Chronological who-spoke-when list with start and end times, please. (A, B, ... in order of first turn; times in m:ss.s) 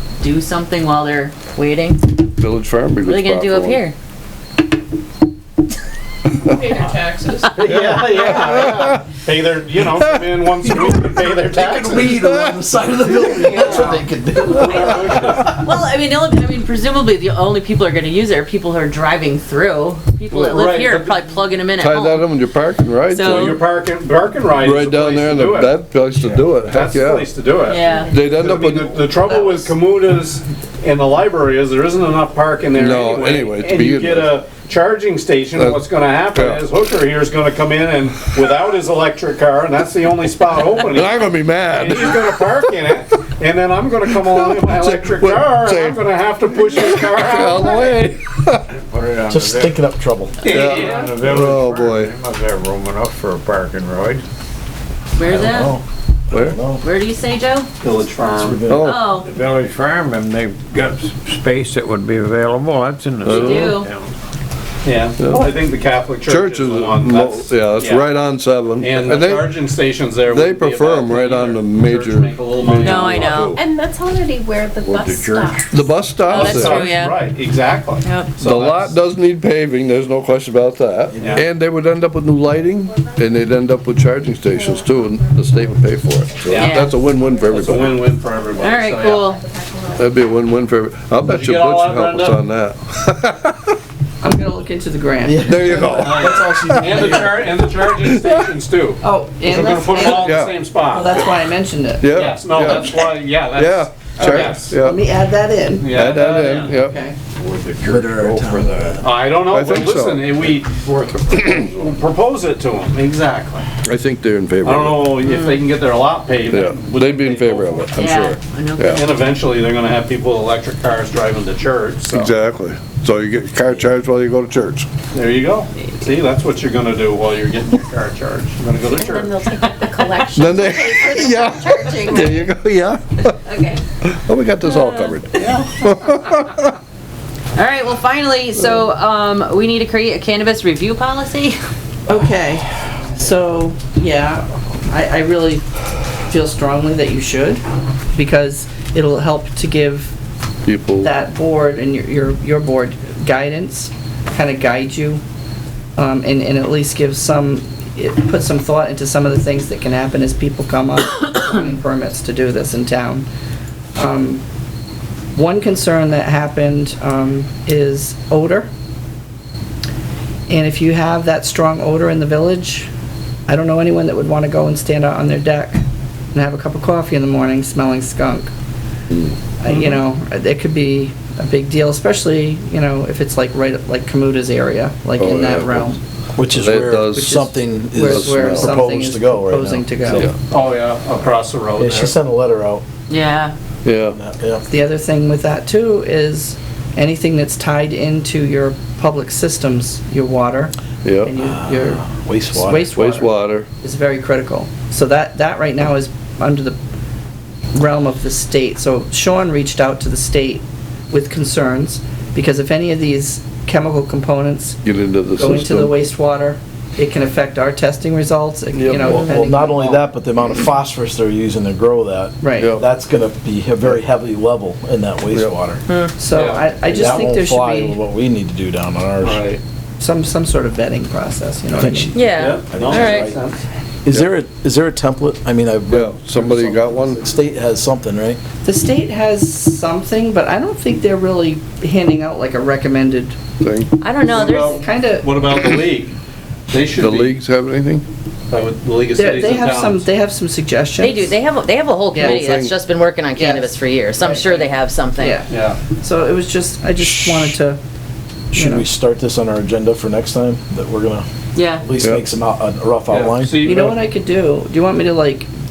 0:00.2-0:02.2 A
0:02.4-0:03.8 B
0:03.0-0:03.9 A
0:06.5-0:07.7 C
0:06.7-0:12.2 D
0:08.3-0:09.0 B
0:11.3-0:15.4 E
0:12.2-0:12.6 B
0:13.1-0:15.5 D
0:13.6-0:22.3 A
0:20.3-0:21.2 D
0:21.8-0:23.6 B
0:23.0-0:23.6 A
0:23.2-0:48.1 D
0:24.5-0:27.3 B
0:27.7-0:28.2 A
0:27.8-0:28.1 C
0:28.1-0:29.0 B
0:29.3-0:29.7 A
0:32.7-0:34.4 B
0:35.5-0:36.7 B
0:38.2-0:38.5 B
0:40.7-0:43.0 B
0:44.1-0:48.6 B
0:48.7-0:49.8 F
0:49.3-0:50.4 E
0:50.4-0:51.2 D
0:50.4-0:54.2 F
0:50.5-0:52.1 B
0:50.5-0:51.1 A
0:55.2-0:55.8 A
0:55.2-0:56.8 E
0:56.3-0:56.6 B
0:56.8-0:57.7 A
0:57.8-0:58.7 D
0:58.3-0:58.9 E
0:58.7-0:59.0 B
0:58.8-0:59.3 A
0:59.1-1:04.1 F
1:03.2-1:03.8 B
1:03.2-1:03.9 A
1:04.8-1:08.2 D
1:05.2-1:05.4 B
1:06.2-1:13.6 B
1:08.8-1:13.5 D
1:12.8-1:13.6 A
1:13.5-1:16.0 C
1:14.8-1:15.8 F
1:15.7-1:16.9 B
1:16.2-1:19.0 D
1:16.3-1:17.2 A
1:18.0-1:18.3 A
1:18.4-1:28.1 B
1:21.1-1:21.4 E
1:21.2-1:21.4 D
1:24.5-1:25.3 C
1:26.5-1:26.8 D
1:26.6-1:26.9 A
1:27.2-1:28.2 C
1:27.5-1:29.3 D
1:28.6-1:29.4 A
1:29.2-1:30.1 C
1:30.0-1:33.8 B
1:31.3-1:32.4 D
1:34.2-1:35.5 G
1:35.2-1:37.6 E
1:35.4-1:37.3 B
1:35.9-1:41.2 D
1:37.9-1:38.5 B
1:39.0-1:40.4 G
1:40.2-1:40.6 B
1:40.9-1:42.7 G
1:42.0-1:45.0 B
1:42.1-1:44.8 D
1:44.2-1:47.2 G
1:45.8-1:46.8 D
1:45.9-1:47.0 B
1:47.4-1:48.2 F
1:47.8-1:49.1 E
1:48.2-1:50.4 B
1:49.0-1:53.7 D
1:53.8-1:55.2 B
1:54.6-1:57.9 D
1:55.2-1:55.6 A
1:56.4-1:59.1 B
1:57.9-1:59.1 A
1:58.9-2:02.3 D
2:02.1-2:04.9 B
2:05.1-2:09.4 D
2:08.9-2:12.5 A
2:09.6-2:11.8 C
2:10.3-2:13.4 B
2:13.4-2:13.8 A
2:14.0-2:16.7 B
2:14.6-2:15.6 A
2:17.5-2:21.6 A
2:22.1-2:25.6 G
2:26.2-2:27.6 G
2:28.1-2:30.1 G
2:30.7-2:31.1 B
2:31.0-2:35.2 G
2:36.0-2:43.3 G
2:44.0-2:44.4 G
2:45.3-2:48.7 G
2:50.5-2:52.9 G
2:53.5-2:55.8 G
2:56.3-2:58.5 G
2:59.6-3:06.0 G
3:05.2-3:05.9 B
3:06.4-3:10.0 E
3:06.5-3:08.8 B
3:07.1-3:10.3 G
3:10.1-3:10.3 B
3:10.2-3:12.1 D
3:11.8-3:12.8 E
3:13.1-3:13.6 A
3:13.8-3:14.2 B
3:14.1-3:14.6 E
3:14.7-3:26.8 G
3:21.0-3:21.3 B
3:21.4-3:23.0 E
3:22.9-3:23.7 B
3:27.7-3:34.8 G
3:34.8-3:35.9 B
3:35.4-3:40.0 G
3:38.7-3:39.1 B
3:39.0-3:45.8 E
3:39.7-3:40.0 D
3:42.4-3:42.8 G
3:45.9-3:46.1 A
3:46.2-3:48.0 G
3:46.3-3:46.7 D
3:46.8-3:49.4 E
3:49.2-3:49.6 D
3:50.0-3:52.2 G
3:51.8-3:53.4 E
3:52.1-3:53.3 A
3:52.3-3:53.6 D
3:54.1-3:58.4 E
3:55.9-3:57.2 B
3:58.6-4:03.4 G
4:03.6-4:03.9 B
4:04.0-4:04.8 A
4:04.2-4:06.1 D
4:04.5-4:05.3 G
4:06.7-4:07.4 D
4:07.0-4:08.0 B
4:08.5-4:10.1 D
4:09.2-4:11.4 G
4:11.0-4:15.4 A
4:12.1-4:12.4 G
4:12.2-4:12.8 B
4:13.3-4:14.6 G
4:15.2-4:17.8 G
4:15.5-4:15.8 D
4:17.0-4:17.5 E
4:18.5-4:18.9 G
4:18.5-4:23.6 E
4:21.5-4:21.8 A
4:23.1-4:24.0 D
4:23.6-4:25.5 G